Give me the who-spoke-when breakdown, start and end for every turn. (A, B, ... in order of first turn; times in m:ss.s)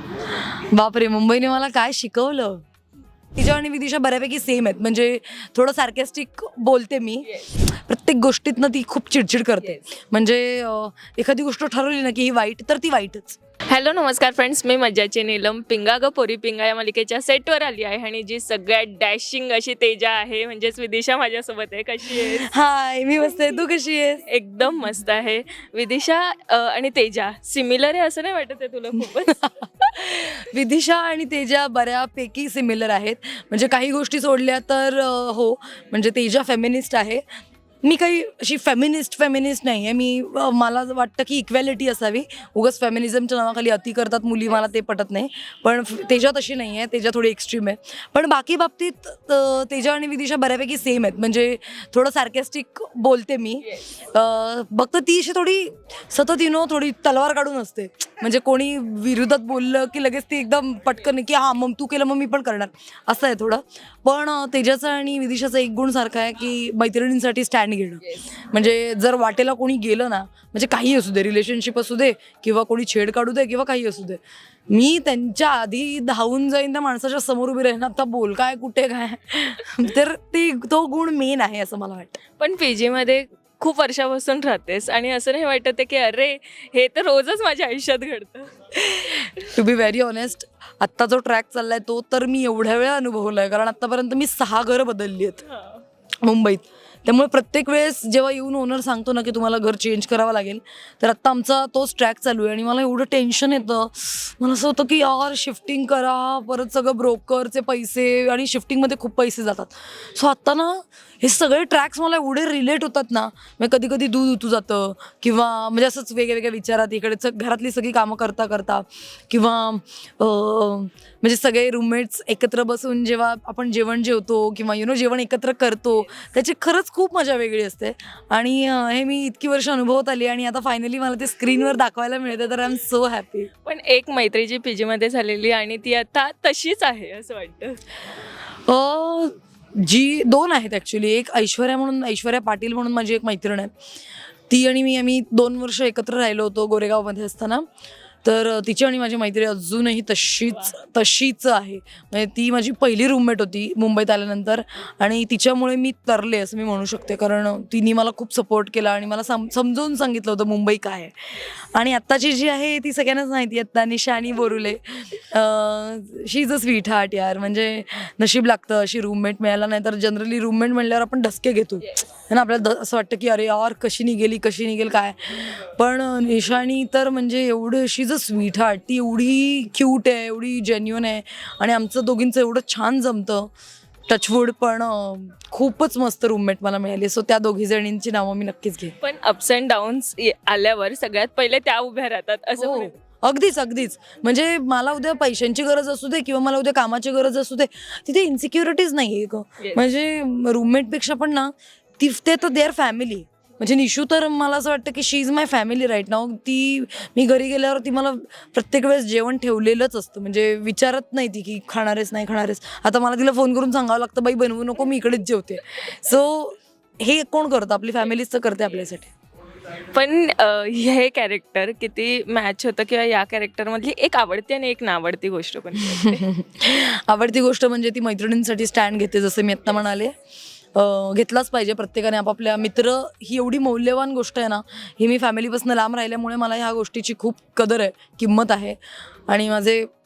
0:00.5-0:02.6 A
0:03.4-0:13.4 A
0:13.7-0:22.5 B
0:22.1-0:24.2 A
0:24.2-0:29.9 B
0:29.4-0:37.2 A
0:37.8-1:22.2 A
1:22.4-1:28.7 B
1:28.8-1:35.4 A
1:35.5-1:35.8 B
1:36.2-2:13.5 A
2:13.6-2:17.8 B
2:18.6-2:23.7 A
2:24.5-2:27.6 A
2:28.2-3:03.5 A
3:04.1-3:08.9 A
3:09.0-3:12.9 B
3:12.6-3:39.1 A
3:39.9-3:46.2 B
3:45.8-3:50.1 A
3:50.7-3:59.9 A